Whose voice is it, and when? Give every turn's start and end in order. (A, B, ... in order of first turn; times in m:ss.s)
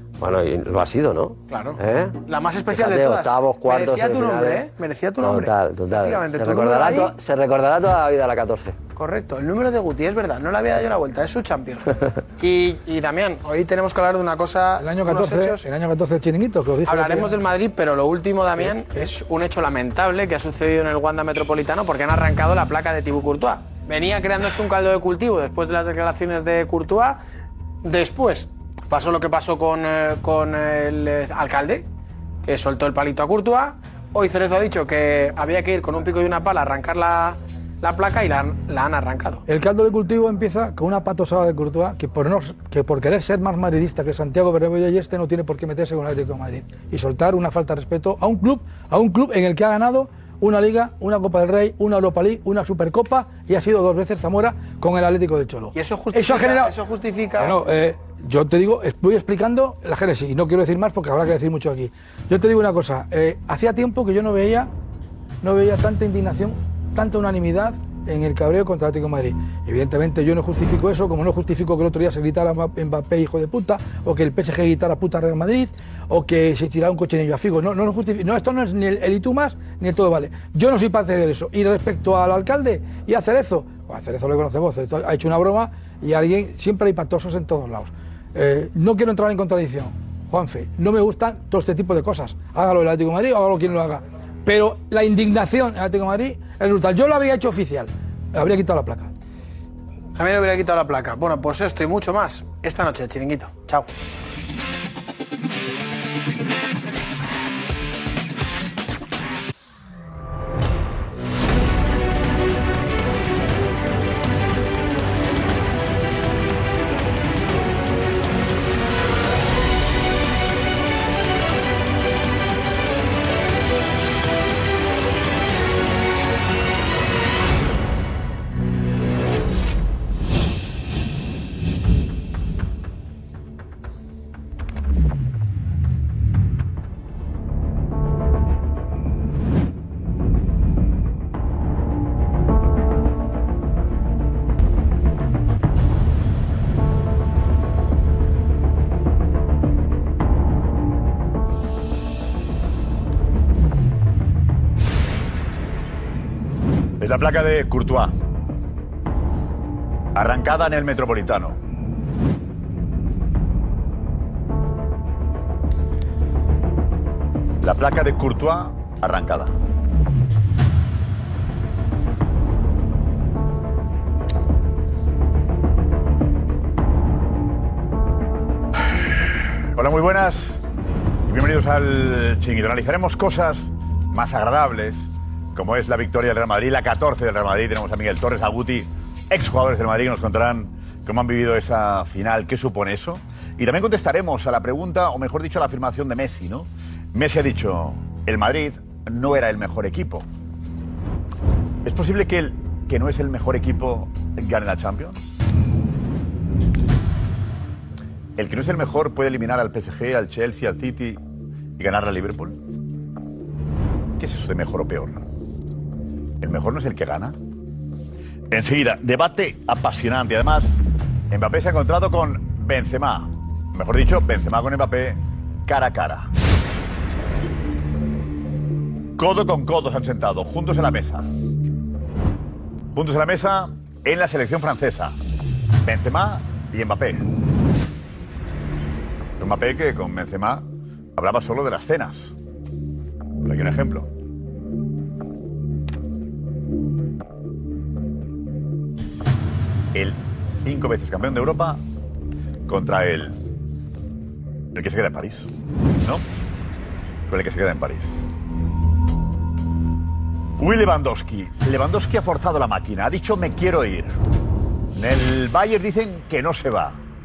0:00.2-0:04.7 A
0:01.5-0:07.2 B
0:05.2-0:08.8 A
0:09.0-0:15.6 B
0:14.8-0:17.4 C
0:16.8-0:27.2 B
0:27.8-0:31.8 B
0:32.4-0:39.4 B
0:39.5-0:56.7 C
0:55.8-0:57.6 B
0:57.4-1:04.7 C
1:05.4-1:39.1 C
1:40.2-1:43.9 B
2:37.0-2:38.1 D
2:40.2-2:41.6 D
2:47.6-2:49.5 D
2:59.8-3:00.6 D
3:01.3-3:20.3 D
3:21.8-3:25.2 D
3:28.4-3:31.2 D
3:31.8-3:32.6 D
3:34.2-3:35.2 D
3:36.4-3:37.4 D
3:38.5-3:46.3 D
3:49.2-3:51.3 D
3:52.9-3:55.2 D
3:55.8-3:57.3 D
3:59.4-4:02.4 D
4:03.4-4:04.1 D
4:09.9-4:11.8 D
4:12.7-4:13.4 D
4:14.7-4:15.5 D
4:17.3-4:18.2 D
4:20.6-4:24.1 D
4:25.0-4:27.0 D